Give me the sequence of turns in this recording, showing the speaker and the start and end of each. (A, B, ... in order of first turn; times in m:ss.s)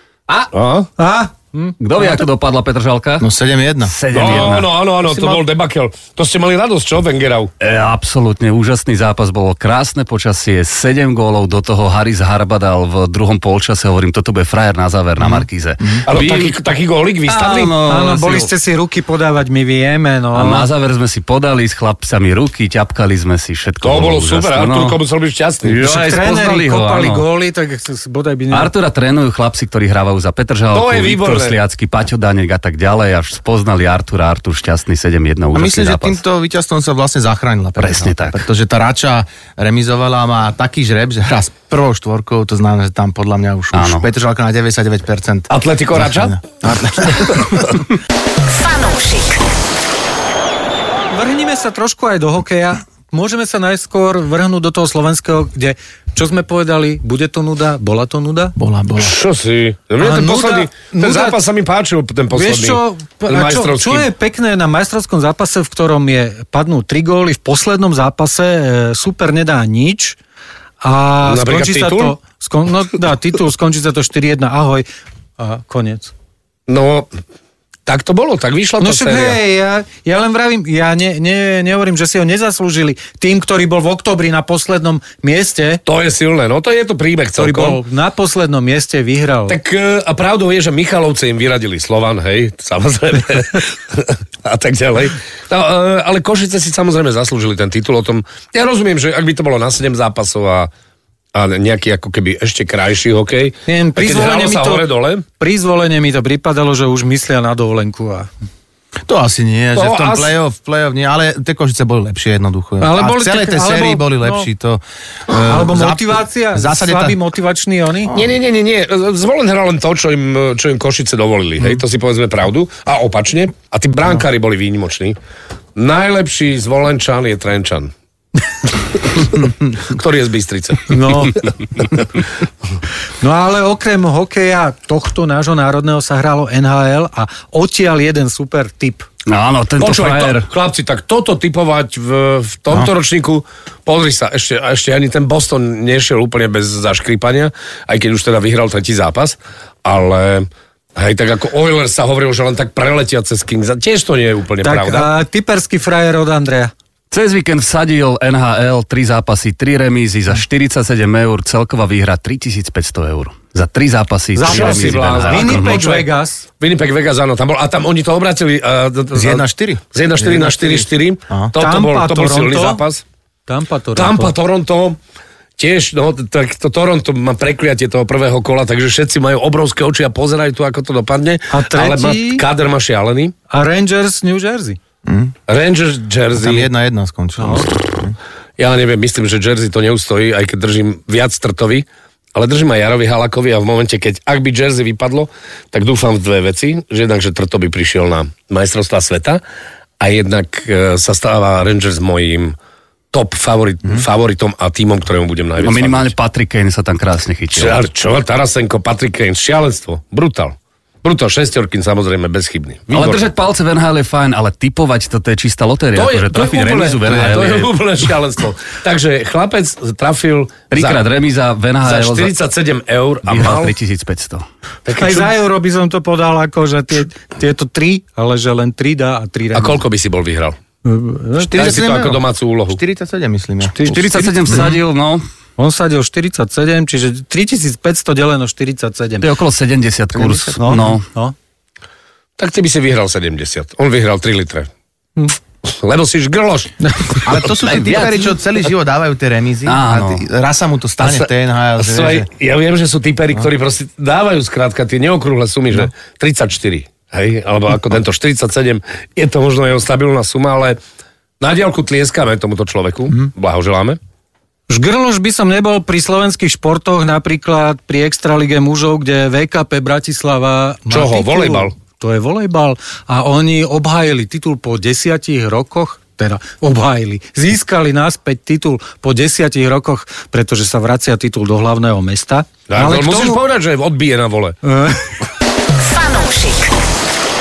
0:00.3-0:00.9 A
0:01.0-0:02.2 B
0:01.8-0:03.3 C
0:03.2-0:04.4 D
0:03.9-0:04.7 C
0:04.1-0:07.5 A
0:07.6-0:16.6 C
0:15.2-0:16.1 D
0:16.1-0:17.8 A
0:17.3-0:18.5 C
0:17.9-0:20.7 B
0:20.3-0:25.0 C
0:23.8-0:25.8 A
0:25.6-0:27.3 C
0:25.8-0:28.7 B
0:28.5-0:36.2 C
0:30.7-0:31.6 A
0:35.5-0:47.8 D
0:37.8-0:38.4 C
0:43.7-0:44.0 C
0:45.5-0:46.5 A
0:47.0-0:47.5 A
0:48.5-0:49.4 E
0:51.1-0:58.6 B
0:58.6-0:59.2 D
0:59.0-1:04.1 A
1:00.0-1:01.4 B
1:02.3-1:10.2 B
1:10.8-1:14.9 B
1:11.2-1:12.2 A
1:15.4-1:16.1 B
1:16.7-1:17.1 A
1:17.9-1:19.4 A
1:18.8-1:25.8 B
1:25.9-1:27.8 A
1:27.4-1:29.6 B
1:29.5-1:40.7 A
1:41.3-1:45.2 A
1:43.7-1:44.9 B
1:45.4-1:48.3 B
1:49.1-1:57.2 D
1:49.8-1:50.3 A
1:52.8-1:54.5 B
1:55.4-1:58.1 B
1:58.1-2:05.2 A
2:05.8-2:07.9 A
2:09.0-2:11.0 A
2:10.9-2:11.5 B
2:13.2-2:19.1 B
2:19.3-2:20.5 C
2:19.8-2:35.1 A
2:34.6-2:36.7 B
2:37.1-2:45.8 C
2:44.4-2:46.5 B
2:44.4-2:46.1 A
2:46.6-2:53.0 A
2:49.1-2:51.5 D
2:51.6-2:52.8 B
2:53.5-2:54.3 B
2:54.0-2:55.0 A
2:55.6-3:03.3 A
3:01.5-3:02.4 B
3:03.5-3:04.8 B
3:05.0-3:05.3 D
3:05.5-3:06.7 A
3:06.4-3:08.2 D
3:07.4-3:07.7 B
3:08.6-3:19.4 A
3:20.0-3:22.6 A
3:23.1-3:26.1 A
3:25.6-3:27.8 C
3:27.6-3:33.3 A
3:32.9-3:37.7 C
3:36.0-3:41.0 A
3:40.7-3:42.3 C
3:41.8-3:43.8 A
3:43.3-3:44.4 C
3:44.9-3:45.3 A
3:45.0-3:49.8 B
3:49.5-3:50.6 A
3:50.8-3:51.6 B
3:51.4-3:54.7 D
3:51.5-3:52.8 A
3:53.7-3:55.2 C
3:55.6-3:59.3 B
3:59.2-4:01.0 C
4:00.1-4:01.0 D
4:00.6-4:01.3 B
4:02.4-4:04.7 A
4:05.6-4:07.3 A
4:06.8-4:07.2 B
4:07.2-4:12.3 D
4:07.7-4:08.3 C
4:09.7-4:10.2 C
4:11.8-4:20.8 A
4:21.4-4:24.0 A
4:24.7-4:43.4 B
4:30.9-4:31.7 A
4:42.7-4:44.6 A
4:44.6-4:45.2 B
4:45.8-4:46.8 E